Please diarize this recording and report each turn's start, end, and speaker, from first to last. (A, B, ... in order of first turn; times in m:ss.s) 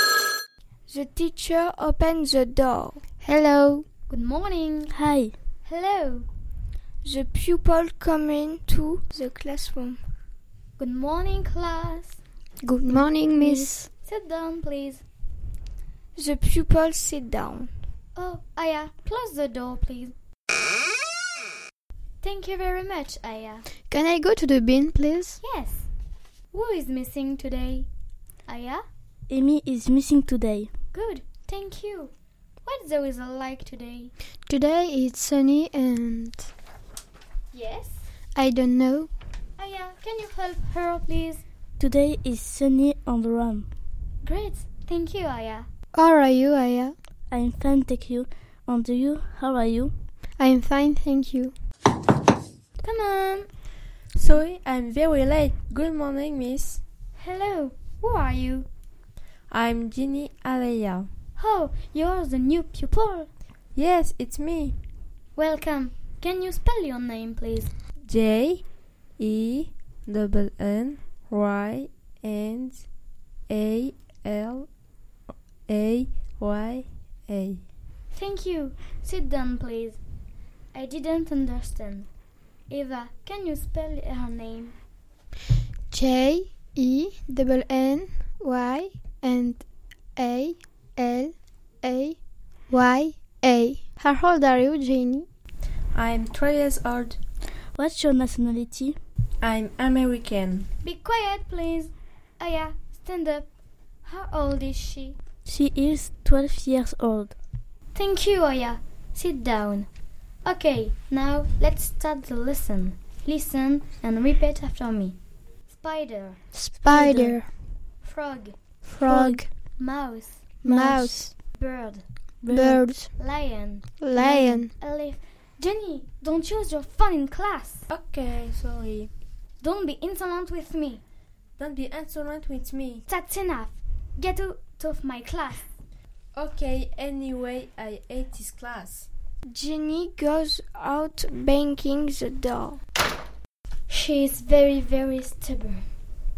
0:00.9-0:03.0 A
0:03.2-0:03.9 B
0:04.1-0:05.0 C
0:04.9-0:05.3 D
0:05.6-0:06.3 C
0:07.0-0:10.0 A
0:10.8-0:12.2 C
0:12.6-0:13.9 B
0:13.6-0:15.0 C
0:16.2-0:17.7 A
0:18.2-0:20.2 C
0:22.2-0:23.7 C
0:23.9-0:25.4 B
0:25.4-0:25.9 C
0:26.5-0:27.9 C
0:28.5-0:28.8 C
0:29.3-0:30.7 D
0:30.9-0:32.1 C
0:32.6-0:34.1 C
0:34.5-0:36.5 B
0:37.5-0:38.0 C
0:38.4-0:39.1 B
0:39.6-0:41.4 C
0:41.8-0:43.7 D
0:44.2-0:45.7 C
0:45.9-0:46.9 B
0:47.3-0:49.9 D
0:50.4-0:51.5 B
0:52.8-0:53.5 C
0:54.2-0:56.8 E
0:57.2-0:58.7 C
0:59.5-1:01.1 E
1:01.4-1:03.3 C
1:03.8-1:04.8 E
1:05.4-1:07.7 C
1:08.0-1:08.6 E
1:09.2-1:12.9 E
1:13.5-1:14.7 E
1:15.7-1:17.6 E
1:18.1-1:20.0 C
1:20.7-1:22.1 C
1:22.7-1:24.8 C
1:25.9-1:29.6 B
1:30.2-1:32.2 B
1:32.7-1:35.3 B
1:35.9-1:37.2 E
1:37.8-1:39.0 D
1:39.4-1:40.7 E
1:40.8-1:43.5 C
1:44.0-1:45.2 C
1:45.4-1:47.4 D
1:47.9-1:49.9 C
1:50.4-1:55.2 C
1:55.7-1:56.4 C
1:56.5-1:57.5 B
1:56.9-1:57.4 D
1:58.0-1:58.6 C
1:58.9-1:59.5 B
1:59.0-1:59.4 D
1:59.8-2:00.5 C
2:00.6-2:01.3 B
2:00.6-2:01.2 D
2:01.5-2:02.0 C
2:02.4-2:02.9 D
2:02.5-2:03.1 B
2:03.2-2:07.8 C
2:04.0-2:04.7 B
2:07.9-2:09.1 E
2:09.6-2:11.0 C
2:11.6-2:13.0 E
2:13.1-2:15.7 C
2:16.3-2:19.1 E
2:19.5-2:22.8 A
2:23.9-2:25.9 C